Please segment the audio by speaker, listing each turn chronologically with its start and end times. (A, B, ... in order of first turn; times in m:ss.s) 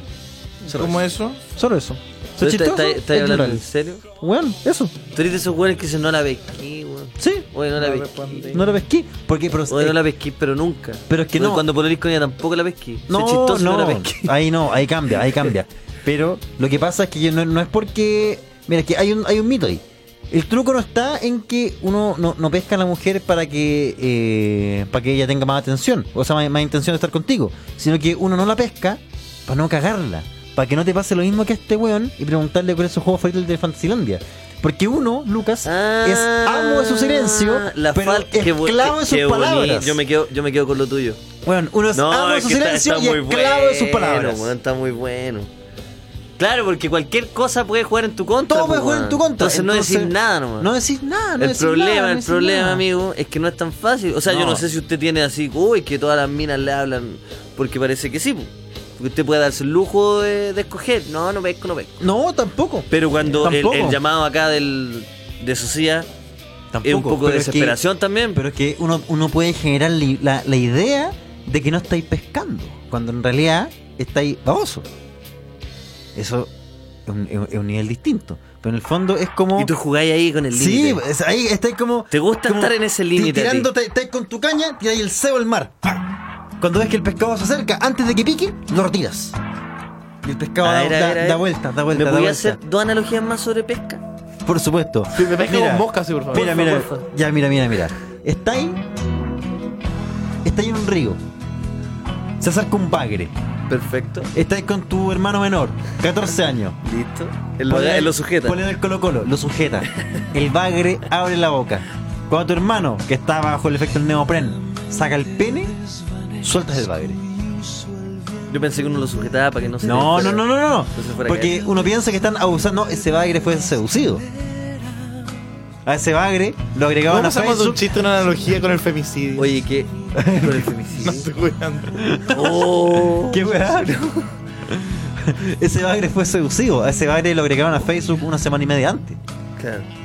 0:00.6-0:01.6 A
0:01.6-0:03.7 B
0:02.4-0:04.0 C
0:04.2-0:04.9 B
0:05.1-0:08.5 C
0:07.2-0:07.5 B
0:07.8-0:08.7 A
0:08.5-0:10.0 B
0:09.7-0:14.4 C
0:11.1-0:11.7 B
0:13.1-0:40.0 B
0:35.6-0:41.2 C
0:41.4-0:44.5 B
0:41.9-0:45.5 C
0:46.4-0:50.7 C
0:48.4-0:52.8 B
0:51.4-1:02.0 C
0:54.3-0:54.6 B
1:02.0-1:04.0 B
1:02.9-1:06.1 C
1:06.7-1:07.8 B
1:06.8-1:08.4 C
1:08.3-1:14.9 B
1:16.1-1:16.5 B
1:17.0-1:19.7 B
1:19.5-1:21.0 C
1:20.5-1:26.0 B
1:22.1-1:23.7 C
1:26.6-1:29.4 B
1:30.2-1:32.6 B
1:30.6-1:34.0 C
1:34.4-1:38.8 B
1:35.1-1:36.8 A
1:36.3-1:37.0 C
1:40.4-1:41.2 B
1:42.4-1:43.3 B
1:43.7-1:44.3 C
1:44.3-1:46.8 B
1:46.8-1:48.6 C
1:47.7-1:55.8 B
1:56.4-1:57.2 B
1:58.5-2:01.7 C
1:59.8-2:04.2 B
2:05.8-2:07.8 B
2:07.1-2:09.6 A
2:09.4-2:11.3 C
2:10.1-2:10.9 B
2:11.0-2:12.1 A
2:12.0-2:14.1 B
2:12.3-2:14.3 C
2:14.7-2:19.2 B
2:19.6-2:19.9 C